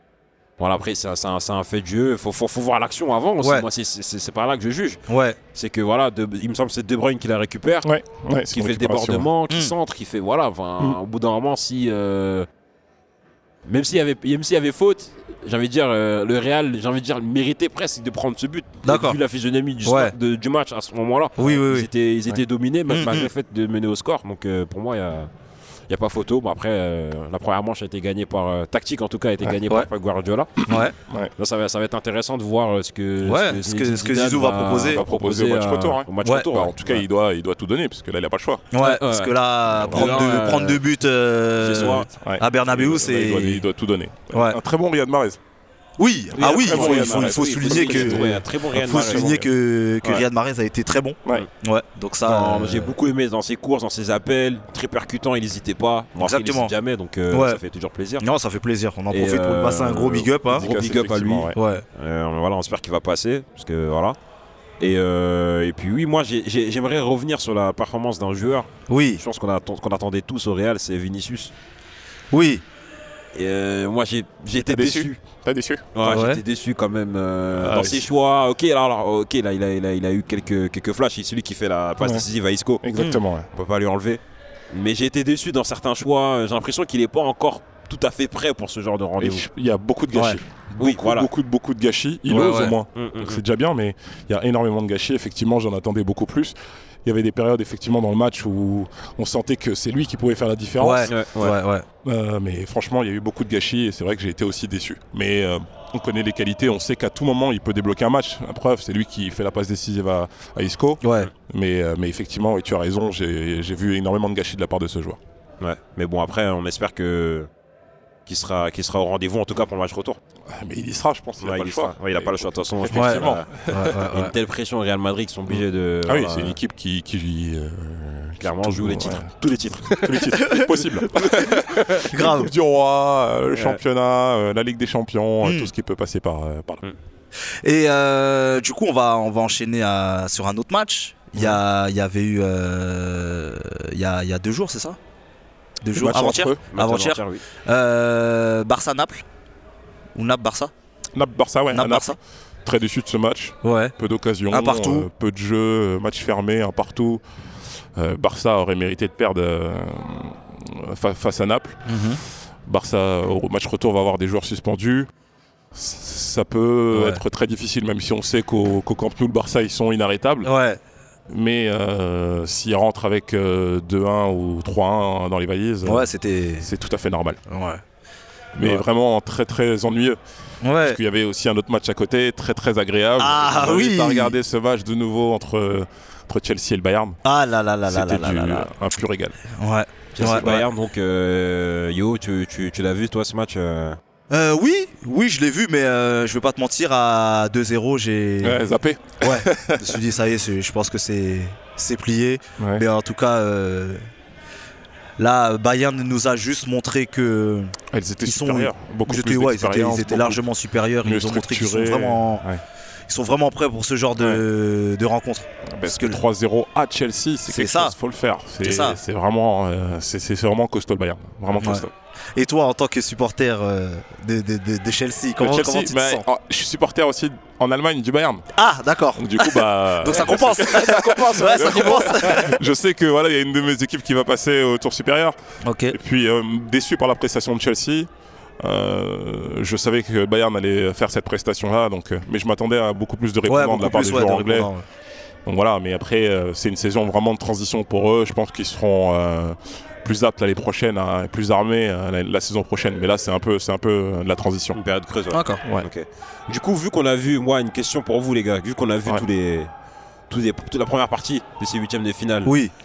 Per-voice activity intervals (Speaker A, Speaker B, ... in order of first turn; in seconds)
Speaker A: 0.6-5.0, 5.5-7.9, 8.5-12.5, 13.7-25.3, 25.9-30.8, 31.4-37.0, 38.8-39.3, 39.9-40.8, 41.6-42.1, 46.4-49.4, 52.2-58.2, 59.1-64.2, 64.8-71.5, 73.3-75.2, 76.0-82.8, 83.5-89.5, 90.8-91.3, 92.3-93.4, 101.1-101.6, 115.6-117.5, 118.3-120.2, 121.4-123.5, 124.1-126.6, 128.4-130.6, 133.5-133.8, 146.7-147.4, 190.2-194.0, 231.2-231.9, 254.7-259.7, 260.3-262.6
Speaker B: 3.4-3.7, 5.1-5.4, 18.8-19.2, 19.8-20.2, 21.4-21.9, 22.9-23.3, 30.7-31.0, 33.2-35.0, 36.2-36.5, 38.7-43.7, 44.3-44.6, 46.0-48.2, 48.8-53.0, 56.2-56.7, 57.3-57.6, 58.2-60.7, 61.5-61.9, 68.9-69.2, 72.3-72.6, 76.0-76.4, 83.0-83.2, 90.1-90.4, 92.3-92.8, 100.8-101.9, 111.0-111.3, 122.9-124.3, 130.4-130.7, 132.1-132.5, 135.4-135.7, 137.6-145.0, 145.8-149.2, 150.2-150.7, 151.7-152.2, 153.6-154.0, 154.5-155.1, 161.9-162.2, 166.9-167.2, 170.4-170.8, 175.8-176.7, 177.5-177.8, 180.6-181.0, 183.2-184.4, 187.2-188.7, 189.6-190.7, 194.3-198.7, 199.2-204.0, 205.2-212.4, 213.1-216.2, 217.5-218.0, 218.6-219.0, 221.6-226.2, 228.5-232.6, 235.6-236.0, 243.4-244.8, 255.3-255.6, 262.4-262.7
Speaker C: 7.8-9.3, 34.9-38.7, 39.7-40.2, 41.9-45.4, 46.4-49.5, 60.5-61.6, 74.6-76.0, 77.5-78.1, 82.0-82.3, 82.8-83.5, 89.2-101.1, 102.0-115.2, 120.5-124.0, 125.5-129.3, 129.9-136.8, 146.0-146.6, 151.2-157.2, 158.0-161.8, 162.7-165.1, 165.7-170.5, 171.3-177.4, 178.6-180.2, 180.8-187.2, 187.9-189.4, 198.4-200.0, 202.6-202.8, 207.9-210.4, 211.0-212.6, 214.2-214.4, 215.7-221.9, 225.4-228.5, 229.2-235.4, 235.9-238.1, 238.6-244.7, 245.5-254.8